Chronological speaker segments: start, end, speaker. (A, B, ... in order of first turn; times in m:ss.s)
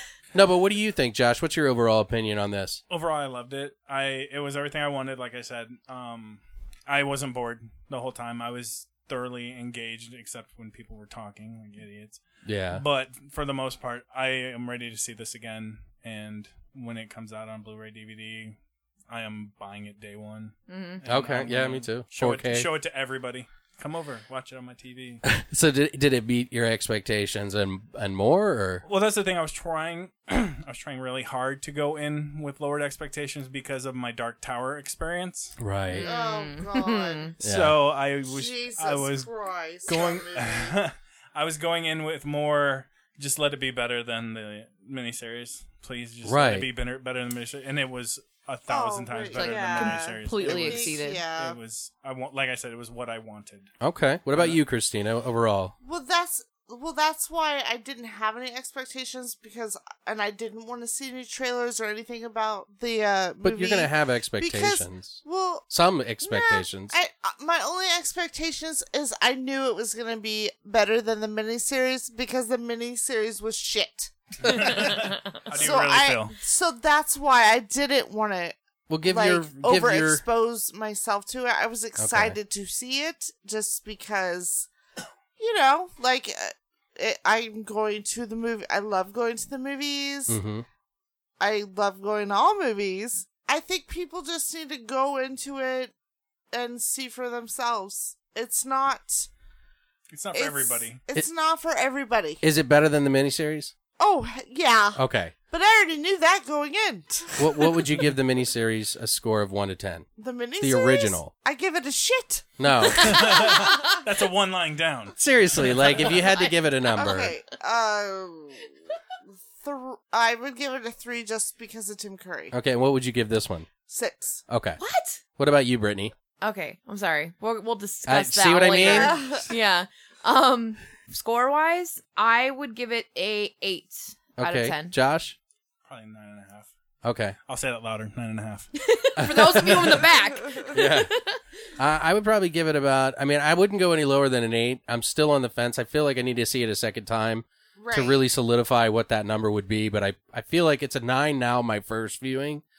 0:00.3-0:02.8 A
0:02.9-0:18.6 B
0:12.4-0:12.8 A
0:19.1-0:25.2 B
0:20.7-0:21.0 C
0:21.0-0:22.7 A
0:25.2-0:28.8 A
0:28.8-0:35.6 B
0:35.6-0:36.1 A
0:35.9-0:37.3 C
0:36.0-0:37.4 D
0:37.4-0:37.8 A
0:37.4-0:39.3 B
0:38.3-0:40.8 D
0:39.8-0:53.7 B
0:46.2-0:46.7 A
0:48.7-0:51.6 D
0:49.3-0:51.2 C
0:53.8-0:55.8 A
0:54.3-0:54.6 B
0:55.8-1:05.7 D
1:03.4-1:07.0 A
1:06.2-1:24.7 D
1:14.4-1:16.4 B
1:14.5-1:15.0 C
1:18.9-1:20.2 A
1:22.0-1:22.4 A
1:25.4-1:30.4 D
1:30.3-1:30.6 A
1:31.4-1:35.9 D
1:36.5-1:39.3 D
1:40.1-1:41.0 B
1:40.3-1:42.4 D
1:42.4-1:43.7 A
1:44.0-1:47.9 D
1:45.0-1:45.3 A
1:47.4-1:50.1 A
1:50.2-1:53.8 D
1:50.6-1:51.3 A
1:52.6-1:53.4 A
1:52.8-1:54.0 C
1:53.0-1:56.0 B
1:55.2-1:57.4 A
1:56.1-1:56.9 C
1:56.9-1:58.7 D
1:59.6-2:02.6 D
2:02.5-2:03.7 A
2:03.8-2:04.4 D
2:04.5-2:04.8 A
2:04.8-2:05.2 C
2:05.4-2:06.1 A
2:06.4-2:15.0 C
2:08.1-2:09.3 A
2:08.8-2:09.5 D
2:14.4-2:15.4 A
2:15.9-2:16.7 B
2:17.0-2:17.4 A
2:17.5-2:18.7 B
2:18.8-2:21.4 C
2:19.2-2:20.0 A
2:20.7-2:21.1 A
2:21.8-2:32.6 A
2:27.8-2:28.2 D